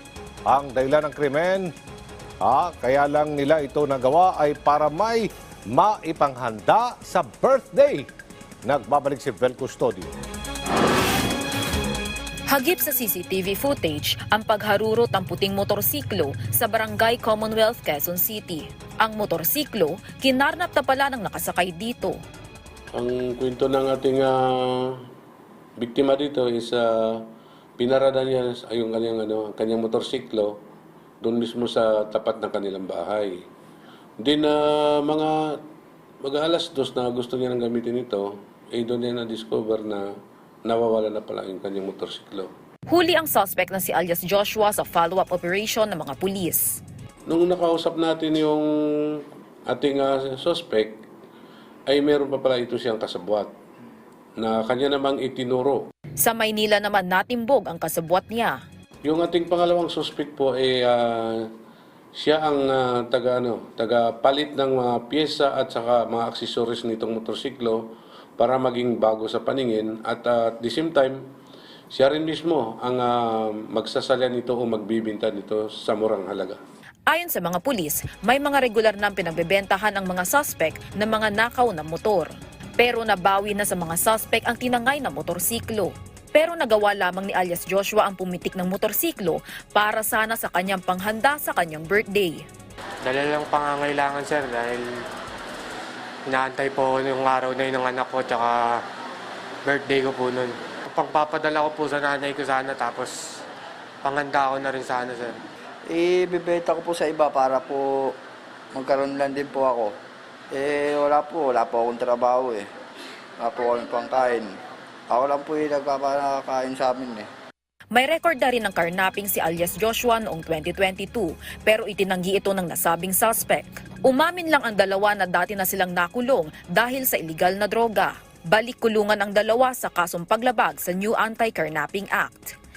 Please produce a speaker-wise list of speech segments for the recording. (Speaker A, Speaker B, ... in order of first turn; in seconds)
Speaker A: 0.5-1.7, 2.4-8.1, 8.7-10.1
Speaker B: 12.5-22.2, 42.9-46.8, 56.2-58.6, 77.1-82.3, 82.8-92.4, 117.9-132.5
Speaker C: 22.9-25.0, 25.8-27.2, 27.8-30.6, 31.2-33.4, 34.2-35.4, 36.2-40.0, 40.7-42.5, 47.3-51.0, 51.9-53.5, 54.4-55.9, 59.0-61.5, 62.2-67.8, 68.4-71.2, 71.9-76.6
Speaker D: 93.0-94.9, 96.3-98.8, 99.7-103.2, 104.0-105.4
Speaker E: 105.9-108.2, 108.7-110.0, 110.5-112.7, 113.4-114.5, 115.1-117.3